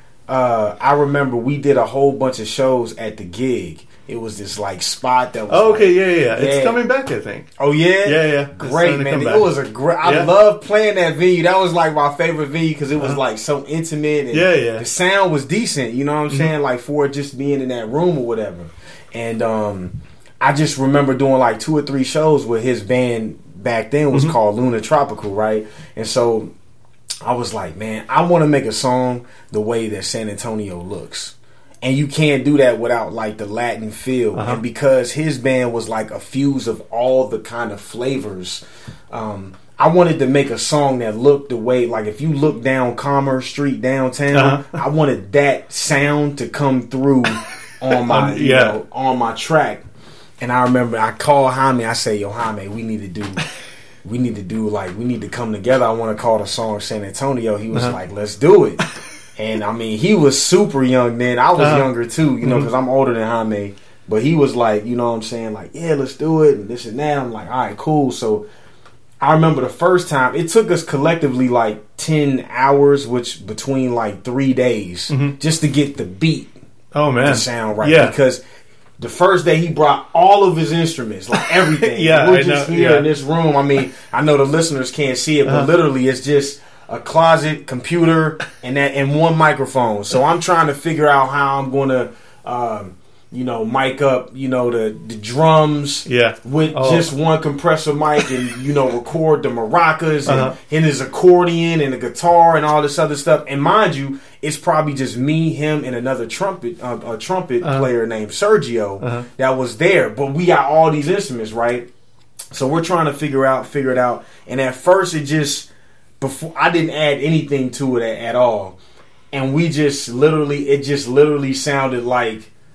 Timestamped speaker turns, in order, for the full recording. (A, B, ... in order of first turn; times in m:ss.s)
0:00.3-0:06.8 A
0:05.5-0:07.5 B
0:07.6-0:26.5 A
0:08.0-0:09.5 B
0:10.0-0:10.3 B
0:14.3-0:14.8 B
0:27.2-0:49.8 A
0:34.3-0:34.6 B
0:44.3-0:44.7 B
0:47.9-0:48.8 B
0:50.4-0:53.4 A
0:54.0-0:58.8 A
0:59.3-1:08.4 A
1:01.6-1:01.9 B
1:02.4-1:02.7 B
1:09.2-1:16.5 A
1:15.1-1:15.4 B
1:16.9-1:18.1 B
1:17.2-1:18.4 A
1:19.0-1:51.9 A
1:21.4-1:23.1 B
1:25.4-1:25.7 B
1:36.0-1:37.1 B
1:40.2-1:40.6 B
1:47.6-1:47.9 B
1:49.0-1:49.3 B
1:52.5-1:55.7 A
1:56.2-1:58.8 A
1:59.3-2:02.5 A